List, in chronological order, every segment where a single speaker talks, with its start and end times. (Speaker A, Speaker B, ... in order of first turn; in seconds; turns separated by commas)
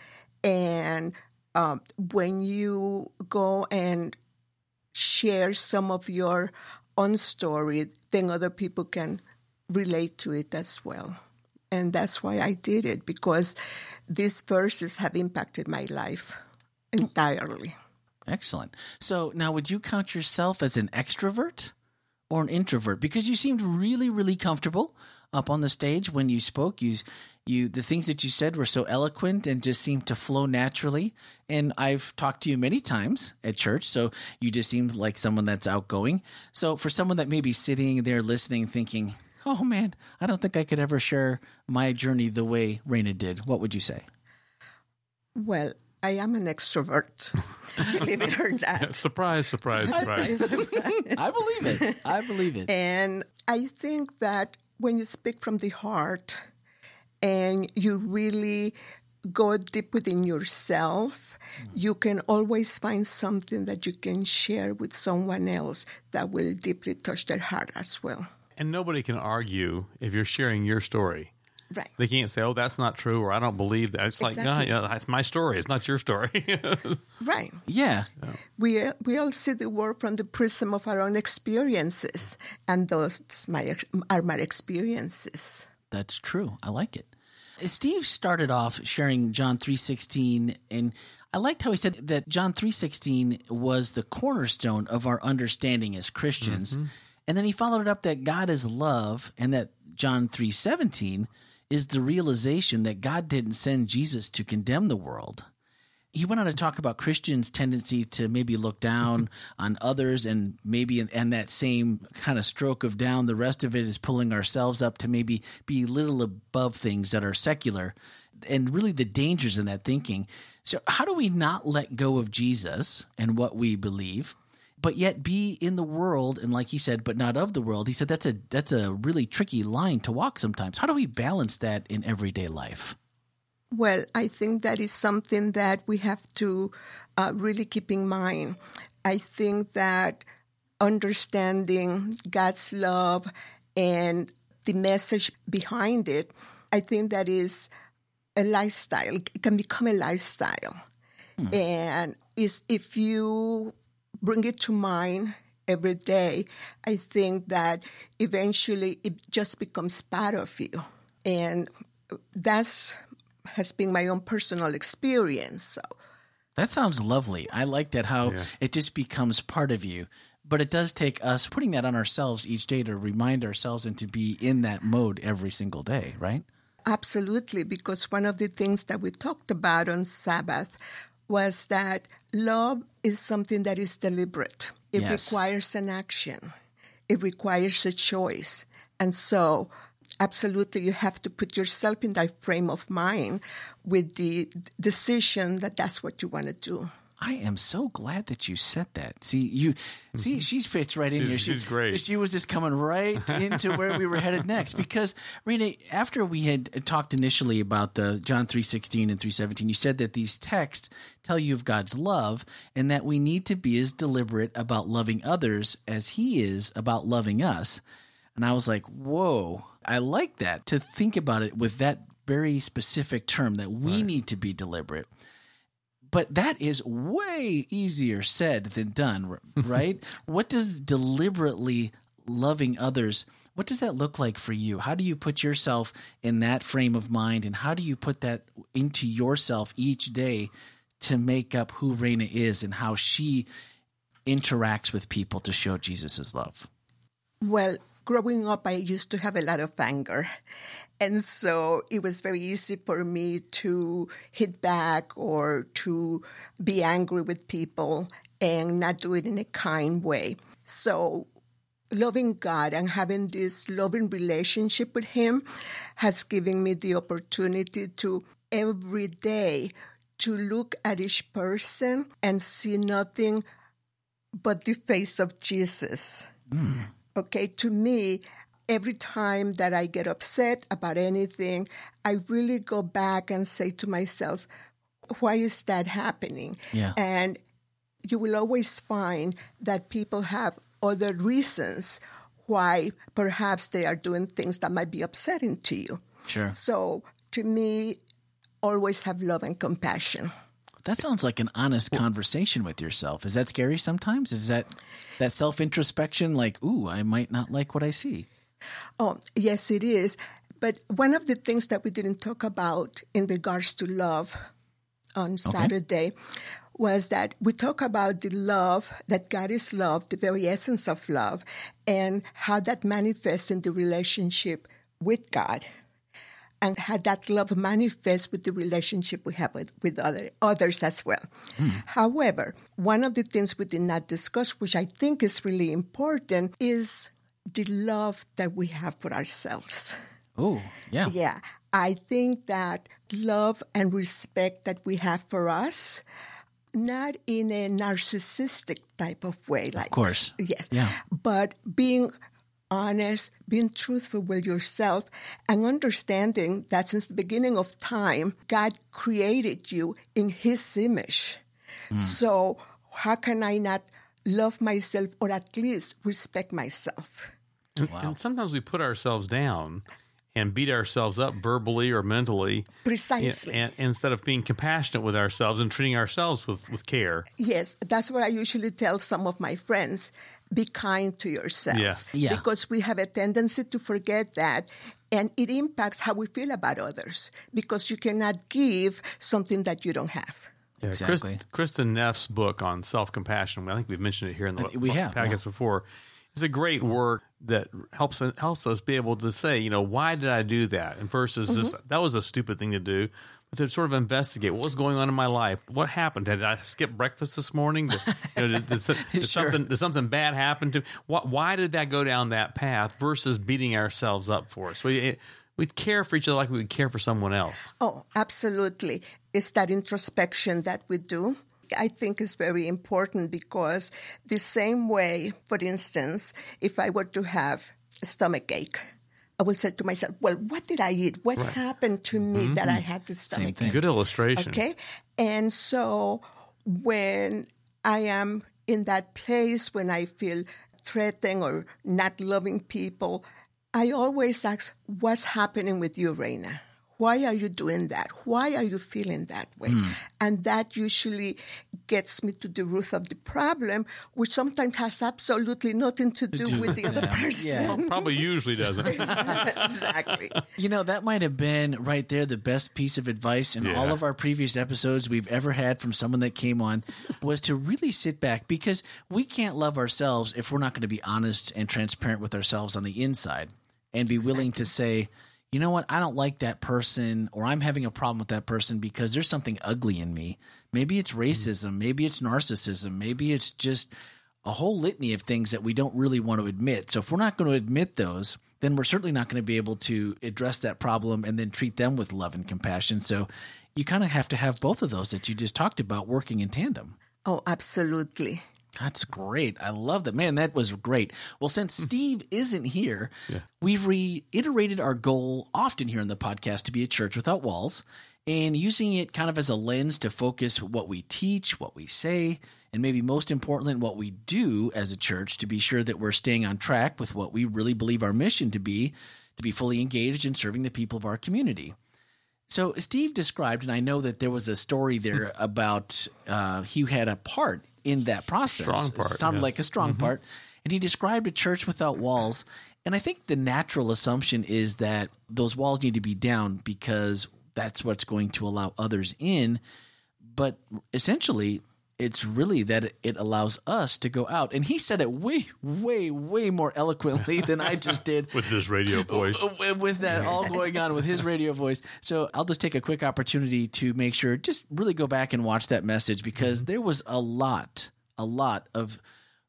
Speaker A: 0.4-4.2, Speaker A: 4.9-11.2, Speaker A: 11.7-13.6, Speaker A: 14.1-16.4, Speaker A: 16.9-17.8, Speaker B: 18.3-21.7, Speaker B: 22.3-44.0, Speaker A: 45.4-49.0, Speaker C: 48.8-50.4, Speaker A: 49.8-52.0, Speaker B: 49.9-52.7, Speaker A: 52.7-56.4, Speaker A: 57.2-58.8, Speaker A: 59.3-68.3, Speaker C: 68.6-71.3, Speaker C: 72.0-77.0, Speaker A: 74.2-74.7, Speaker A: 77.2-77.6, Speaker B: 77.7-78.1, Speaker A: 78.6-85.7, Speaker B: 85.9-105.5, Speaker C: 96.4-96.9, Speaker B: 106.1-132.9, Speaker A: 133.7-140.2, Speaker A: 140.8-147.7, Speaker A: 148.4-150.8, Speaker A: 151.5-161.7, Speaker A: 162.3-165.9, Speaker B: 166.6-176.4, Speaker A: 176.9-186.5, Speaker B: 185.0-185.4, Speaker A: 187.1-196.9, Speaker B: 197.2-217.8, Speaker C: 201.2-202.0, Speaker B: 218.4-225.1, Speaker B: 226.1-243.5, Speaker B: 244.3-246.7, Speaker A: 247.4-250.3, Speaker A: 251.0-261.3, Speaker A: 261.9-265.5, Speaker A: 266.0-273.4, Speaker A: 274.4-276.3, Speaker B: 276.5-276.9, Speaker A: 277.1-284.5, Speaker A: 285.1-287.4, Speaker A: 288.1-298.0, Speaker B: 296.3-296.6, Speaker A: 298.6-300.3, Speaker B: 300.8-308.3, Speaker A: 309.0-314.4, Speaker A: 315.2-316.1, Speaker B: 315.5-315.7, Speaker A: 316.8-325.7, Speaker A: 326.6-340.0, Speaker B: 340.4-341.1, Speaker A: 341.0-346.0, Speaker A: 346.7-352.1, Speaker B: 349.8-350.9, Speaker A: 352.7-367.3, Speaker C: 367.8-372.7, Speaker B: 367.9-368.2, Speaker A: 372.9-373.6, Speaker C: 373.2-377.3, Speaker A: 377.4-390.5, Speaker C: 381.7-382.1, Speaker B: 382.1-382.4, Speaker C: 390.8-417.7, Speaker B: 390.9-391.4, Speaker B: 394.6-395.4, Speaker B: 409.1-409.6, Speaker A: 417.8-428.9, Speaker A: 429.4-433.8, Speaker C: 432.3-432.6, Speaker B: 433.3-433.8, Speaker C: 433.6-434.6, Speaker A: 434.4-458.2, Speaker B: 456.3-457.8, Speaker C: 457.5-460.3, Speaker A: 458.8-460.4, Speaker B: 460.6-483.9, Speaker C: 463.6-464.0, Speaker B: 484.4-497.0, Speaker A: 497.2-498.4, Speaker B: 498.8-521.8, Speaker B: 522.5-539.6, Speaker C: 528.5-530.1, Speaker B: 540.2-559.0, Speaker C: 548.3-549.5